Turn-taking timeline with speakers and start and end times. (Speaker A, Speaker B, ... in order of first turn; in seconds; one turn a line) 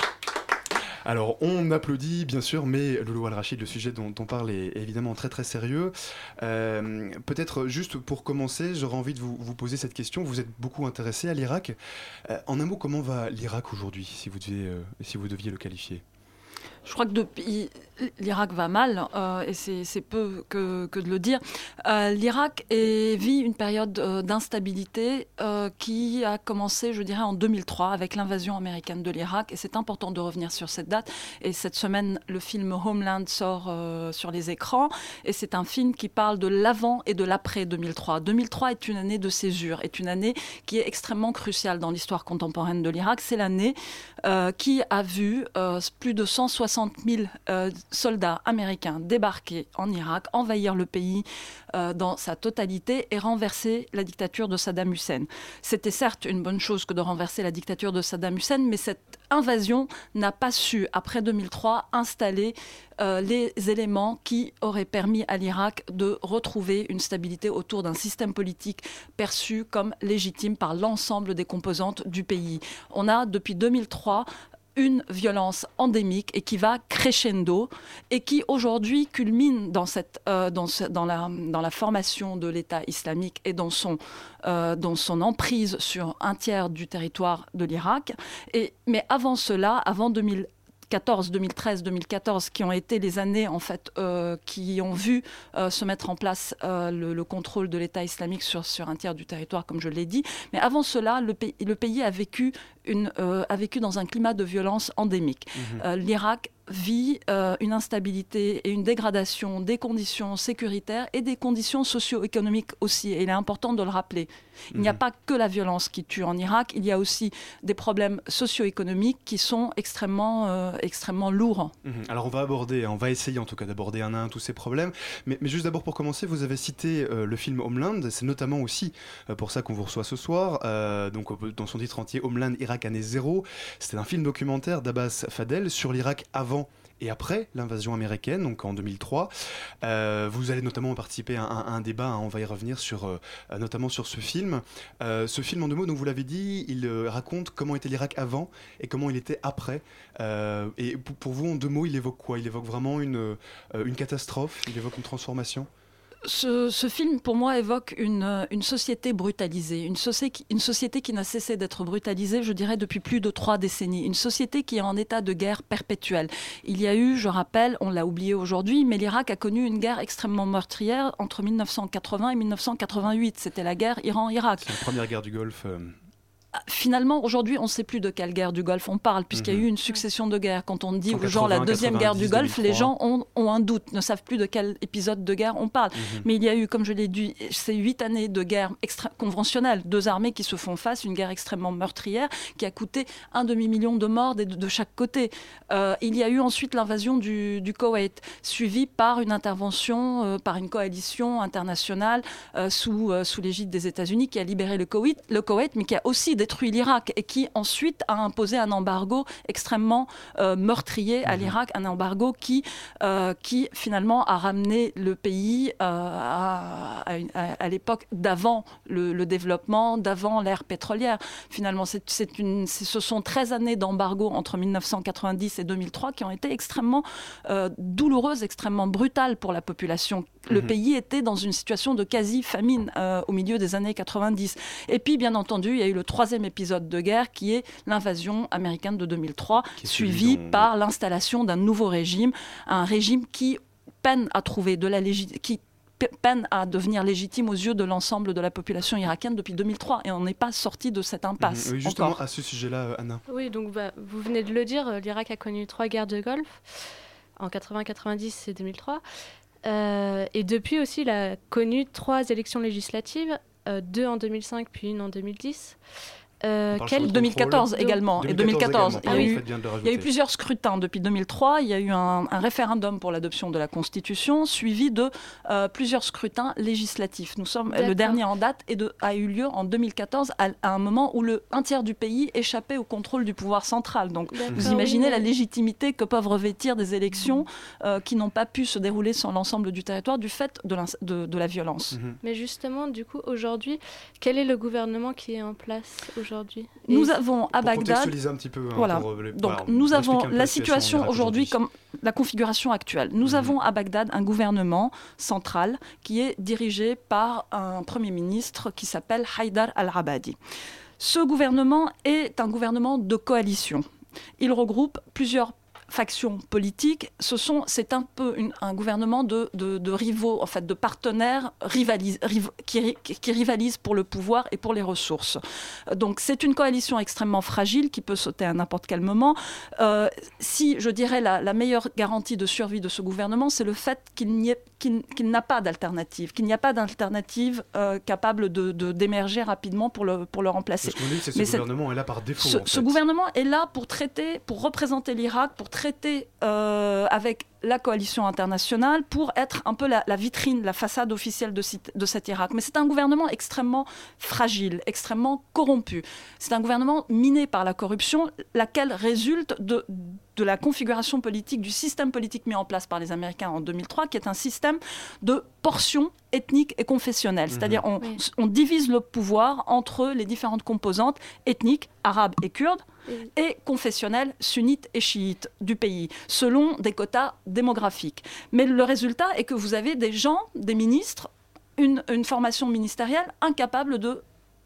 Speaker A: 1.1-16.0
Speaker B: 16.9-121.7
Speaker A: 105.6-105.8
Speaker A: 114.7-115.0
Speaker A: 121.8-139.3
Speaker A: 139.8-155.7
Speaker B: 156.2-174.7
Speaker A: 174.6-176.0
Speaker B: 176.7-252.2
Speaker A: 179.3-179.7
Speaker A: 181.1-182.9
Speaker A: 185.9-186.2
Speaker A: 211.3-211.5
Speaker A: 239.8-240.7
Speaker A: 251.4-253.2
Speaker C: 253.3-256.6
Speaker C: 257.4-259.0
Speaker C: 259.6-265.8
Speaker C: 266.4-269.4
Speaker A: 266.7-270.1
Speaker B: 267.0-292.0
Speaker C: 277.7-278.2
Speaker C: 284.3-285.3
Speaker A: 284.5-284.7
Speaker A: 291.9-292.2
Speaker C: 292.2-297.1
Speaker B: 296.9-298.1
Speaker A: 297.6-301.6
Speaker B: 298.8-310.4
Speaker A: 303.2-303.5
Speaker B: 311.0-313.9
Speaker B: 314.4-325.4
Speaker B: 325.9-341.7
Speaker A: 340.8-343.0
Speaker B: 342.4-372.8
Speaker A: 367.5-367.8
Speaker B: 373.4-384.2